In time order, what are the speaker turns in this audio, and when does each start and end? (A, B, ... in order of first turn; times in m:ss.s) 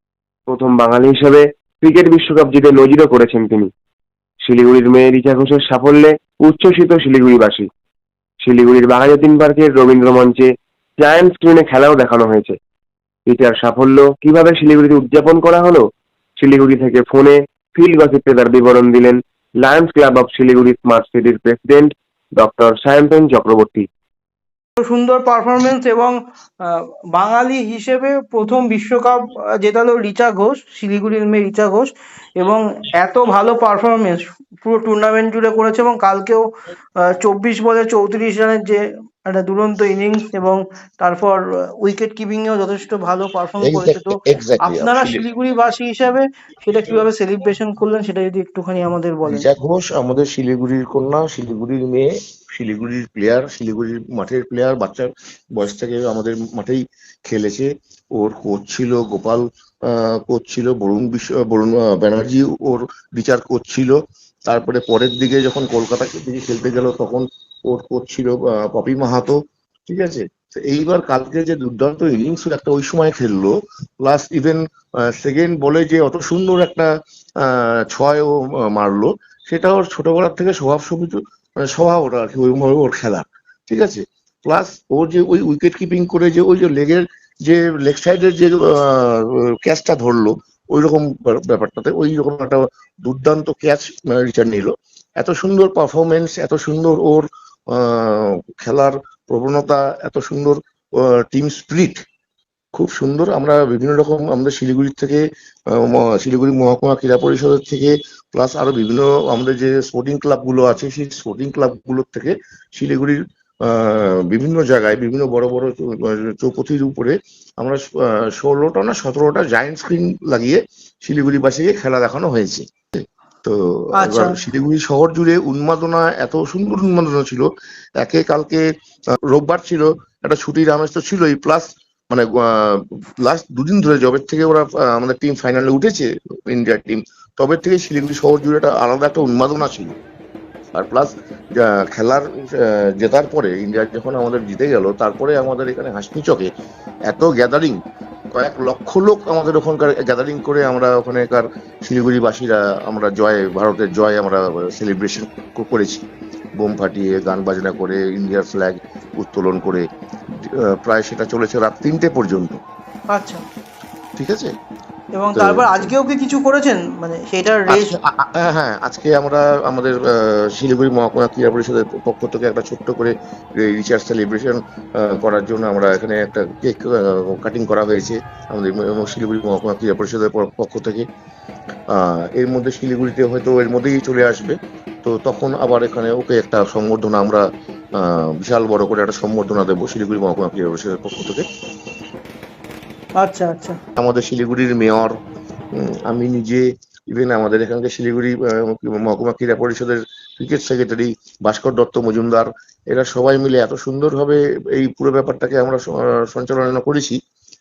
0:00.5-0:03.7 A
0:04.4-0:07.7 A
0:08.4-0:12.5 A
0:13.2-0:15.8 A
0:16.4-0:23.9 A
0:24.8-0:36.4 B
0:37.1-0:49.5 B
0:43.6-0:45.3 C
0:49.2-1:03.9 C
1:04.4-1:42.0 C
1:42.7-2:08.7 C
2:04.0-2:04.4 B
2:09.2-2:19.9 C
2:20.7-2:26.5 C
2:27.1-2:27.8 C
2:28.3-2:36.0 C
2:36.6-2:39.8 C
2:40.4-2:42.6 C
2:43.1-2:43.4 B
2:44.2-2:44.5 C
2:45.1-2:47.9 B
2:45.3-2:45.9 C
2:47.7-3:01.0 C
3:01.9-3:07.4 C
3:08.0-3:11.4 C
3:13.2-3:13.7 B
3:14.0-3:15.1 C
3:15.7-3:27.2 C